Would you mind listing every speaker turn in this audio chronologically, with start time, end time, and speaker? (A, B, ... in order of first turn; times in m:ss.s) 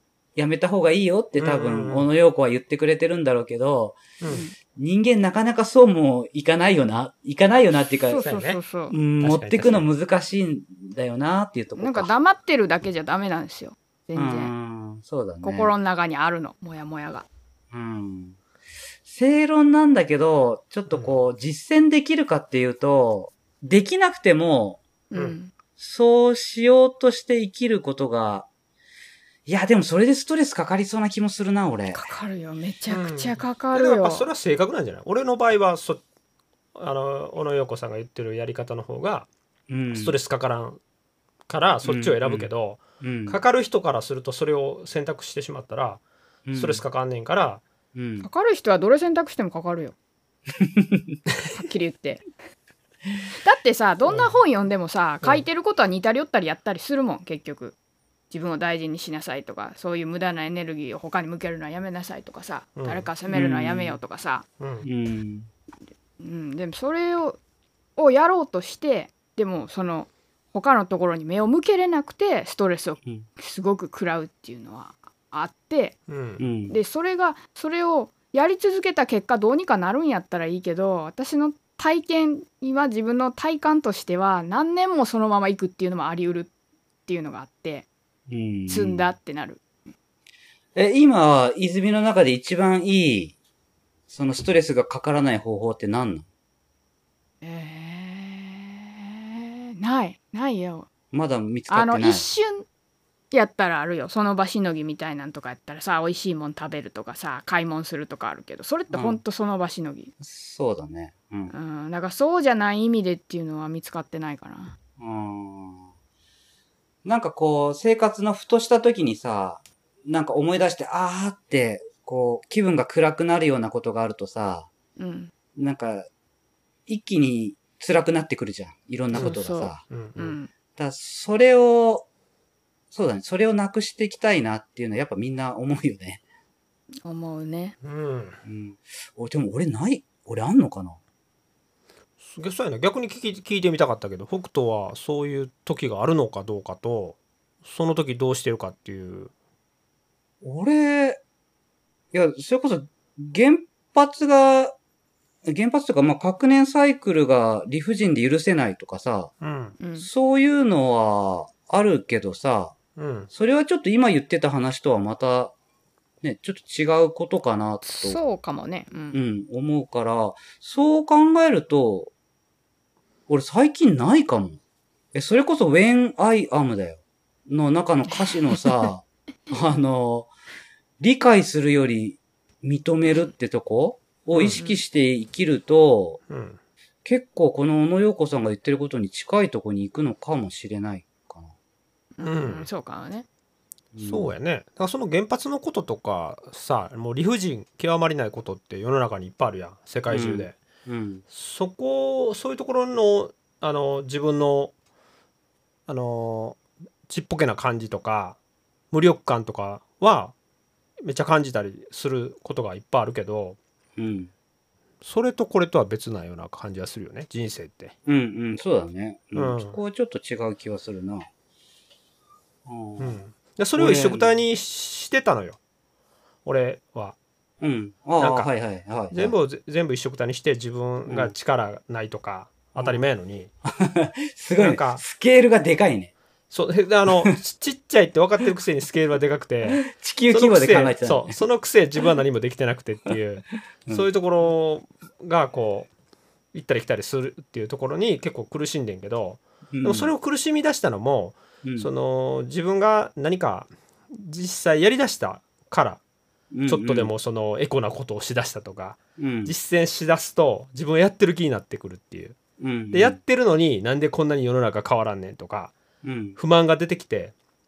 0:00.4-0:04.2 A
0:01.4-0:02.1 B
0:04.2-0:04.5 C
0:04.7-0:08.2 A
0:08.1-0:09.0 C
0:08.2-0:08.6 B
0:08.9-0:12.1 A
0:09.2-0:09.9 B
0:11.8-0:14.5 C
0:14.2-0:15.7 A
0:15.4-0:17.2 C
0:17.7-0:18.4 A
0:19.0-0:24.8 A
0:20.9-0:21.1 B
0:25.1-0:25.5 C
0:25.8-0:28.5 A
0:29.4-0:32.0 A
0:31.9-0:34.3 C
0:32.9-0:36.0 B
0:36.8-0:39.3 B
0:39.7-0:40.2 A
0:39.9-0:40.8 B
0:41.5-0:46.0 B
0:41.8-0:42.5 A
0:43.0-0:43.4 A
0:46.4-0:46.8 A
0:46.5-0:47.6 B
0:47.9-0:48.3 A
0:48.2-0:49.9 C
0:50.6-0:51.2 A
0:51.5-0:52.2 C
0:53.4-0:57.7 C
0:54.1-0:54.3 B
0:58.3-1:04.4 C
1:02.8-1:03.1 B
1:03.3-1:04.0 A
1:04.6-1:04.9 B
1:04.8-1:05.5 A
1:06.2-1:07.4 C
1:08.0-1:16.0 C
1:16.1-1:16.4 B
1:16.4-1:16.8 A
1:16.7-1:26.5 C
1:27.1-1:27.9 C
1:28.3-1:29.1 A
1:28.7-1:29.6 C
1:30.7-1:33.4 A
1:34.1-1:36.2 A
1:37.4-1:40.9 C
1:41.1-1:42.2 A
1:41.7-1:42.6 C
1:43.3-1:50.1 C
1:48.9-1:49.2 A
1:50.2-1:51.5 A
1:51.5-1:54.8 C
1:55.0-1:55.9 A
1:57.0-2:04.7 A
2:05.0-2:05.3 C
2:05.6-2:06.1 A
2:06.9-2:09.8 A
2:09.1-2:10.5 C
2:09.9-2:10.4 B
2:10.8-2:12.0 A
2:12.9-2:16.2 A
2:17.0-2:17.8 C
2:17.8-2:18.4 B
2:18.4-2:21.0 A
2:22.2-2:29.3 B
2:30.4-2:31.2 A
2:32.1-2:34.8 A
2:35.4-2:39.3 A
2:39.4-2:39.8 B
2:39.8-2:40.1 C
2:40.0-2:42.8 A
2:43.0-2:43.3 B
2:43.3-2:45.5 A
2:46.2-2:48.2 A
2:47.8-2:49.2 C
2:49.1-2:52.1 A
2:53.3-2:54.6 A
2:55.1-3:00.3 A
3:01.0-3:06.2 A
3:04.3-3:04.6 B
3:04.5-3:04.8 C
3:06.3-3:06.6 B
3:07.0-3:11.5 A
3:12.2-3:13.2 C
3:12.2-3:12.7 B
3:13.9-3:14.3 A
3:14.0-3:20.6 B
3:20.1-3:21.2 A
3:21.3-3:24.7 B
3:25.9-3:28.4 B
3:28.9-3:30.3 B
3:31.0-3:33.6 B
3:34.0-3:34.3 A
3:35.0-3:37.9 B
3:38.0-3:41.3 A
3:39.3-3:39.8 B
3:42.6-3:43.2 A
3:43.0-3:45.6 B
3:43.8-3:44.4 A
3:46.4-3:47.2 B
3:47.6-3:49.3 A
3:48.2-3:48.5 B
3:49.1-3:53.5 B
3:51.1-3:51.3 A
3:53.6-3:56.1 A
3:54.6-3:55.0 B
3:56.5-4:05.9 B
3:57.1-3:57.3 A
3:59.8-4:01.4 A
4:06.5-4:16.0 B
4:09.7-4:10.1 A
4:11.6-4:11.9 A
4:16.5-4:17.1 A
4:16.7-4:22.4 B
4:19.2-4:19.5 A
4:22.6-4:23.2 A
4:22.9-4:25.7 B
4:26.0-4:26.4 A
4:26.4-4:27.3 B